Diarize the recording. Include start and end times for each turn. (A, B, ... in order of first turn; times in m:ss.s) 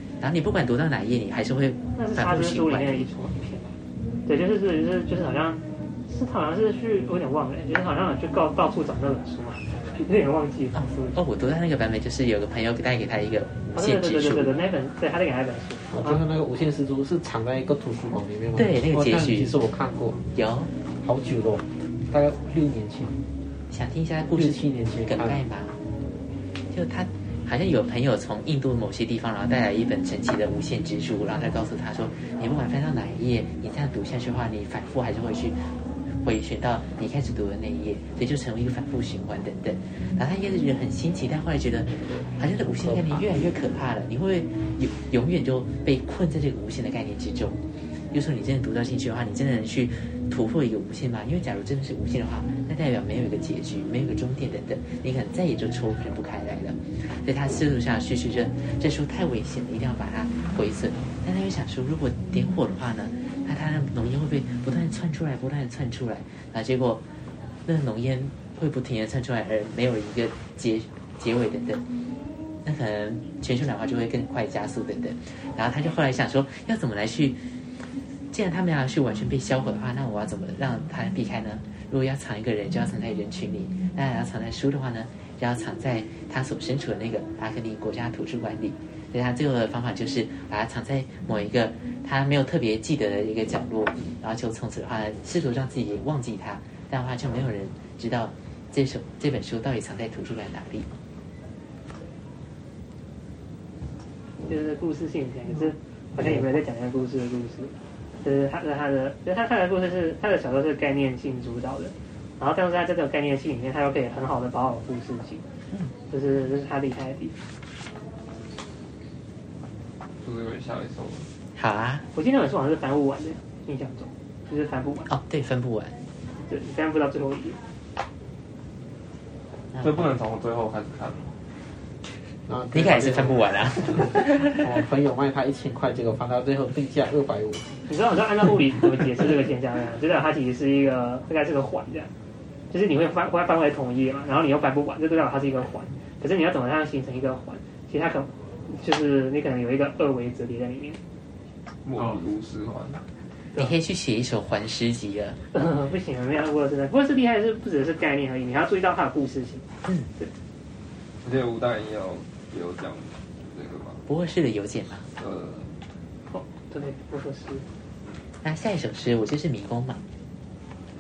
0:00.2-0:03.1 A
0:02.0-0:03.7 B
0:04.2-0:11.2 B
0:10.7-0:14.5 A
0:13.7-0:16.2 B
0:15.9-0:20.2 C
0:18.5-0:19.5 A
0:20.3-0:20.7 A
0:21.0-0:23.2 C
0:23.7-0:25.8 A
0:24.3-0:25.4 C
0:26.7-0:35.6 A
0:36.2-1:07.0 A
0:42.6-0:43.5 C
1:07.6-1:11.8 A
1:12.6-1:17.4 A
1:18.3-1:40.9 A
1:44.4-1:55.4 B
1:56.1-1:57.3 B
2:00.2-2:01.3 D
2:01.5-2:02.0 A
2:02.1-2:05.1 B
2:05.1-2:06.0 A
2:06.5-2:07.6 B
2:09.7-2:10.1 A
2:09.8-2:11.4 D
2:12.5-2:17.8 C
2:12.7-2:14.6 A
2:17.9-2:22.1 B
2:22.7-2:31.0 B
2:31.8-2:33.0 D
2:33.6-2:35.4 A
2:35.5-2:39.7 B
2:41.2-2:44.0 D
2:44.1-2:45.1 A
2:45.2-2:45.7 D
2:46.3-2:47.6 B
2:48.4-2:50.0 A